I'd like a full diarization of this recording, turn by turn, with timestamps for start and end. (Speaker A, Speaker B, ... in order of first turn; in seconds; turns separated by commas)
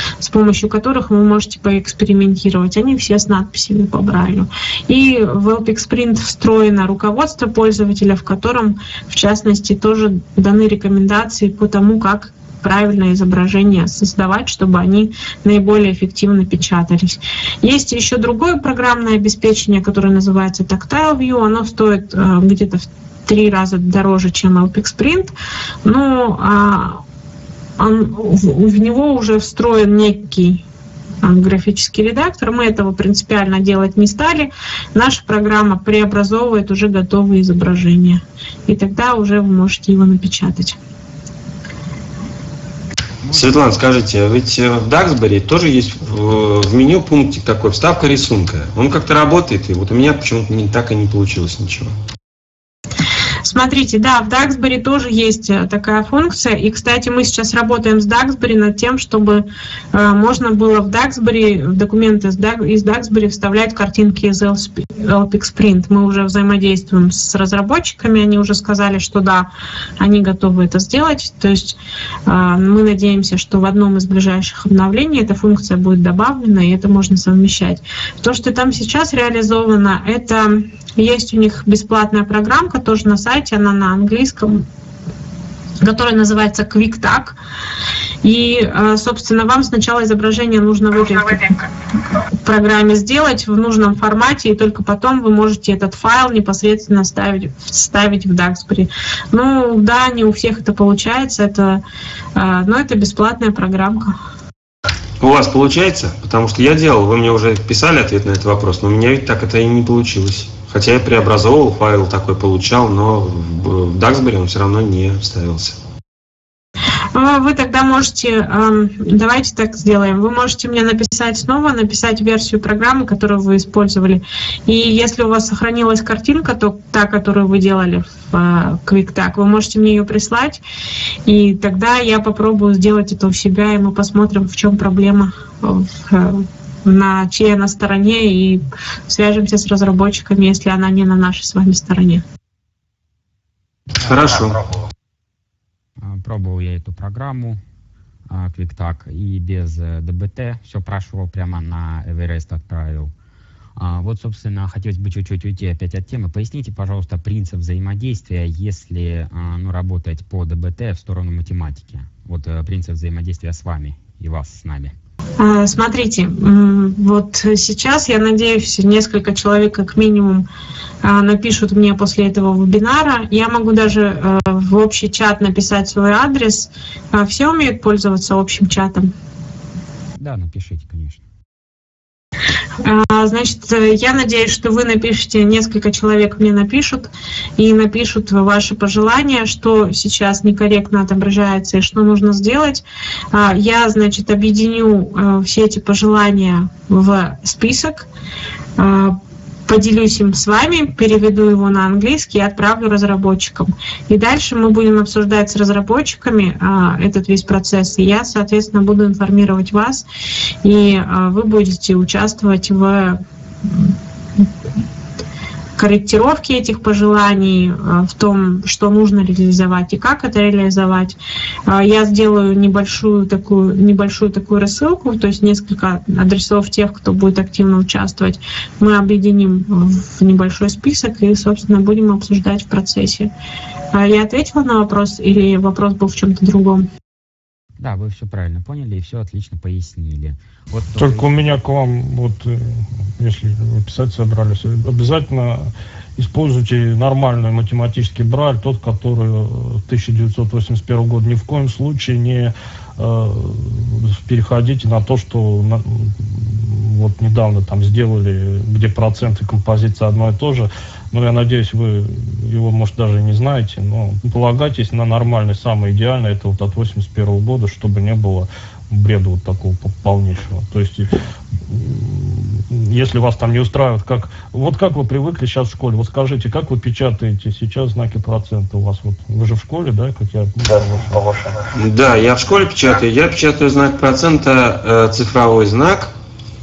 Speaker A: 0.2-25.3, Speaker A: 25.9-27.0, Speaker A: 27.8-30.6, Speaker A: 31.2-40.8, Speaker B: 43.2-43.8, Speaker C: 43.3-51.9, Speaker A: 53.5-69.5, Speaker A: 70.0-84.7, Speaker A: 85.8-87.4, Speaker A: 88.2-91.6, Speaker A: 92.4-101.8, Speaker A: 102.3-104.2, Speaker C: 105.2-115.8, Speaker A: 117.1-130.6, Speaker A: 131.3-142.2, Speaker C: 144.0-144.7, Speaker B: 146.0-147.6, Speaker B: 148.3-153.1, Speaker B: 153.8-164.9, Speaker A: 165.4-170.5, Speaker A: 171.0-179.1, Speaker B: 180.2-181.2, Speaker A: 182.8-198.1, Speaker A: 198.8-210.1, Speaker A: 210.6-214.4, Speaker A: 215.8-233.3, Speaker A: 233.9-236.9, Speaker B: 237.8-241.3, Speaker D: 241.0-271.2, Speaker D: 271.7-281.5, Speaker C: 281.7-286.1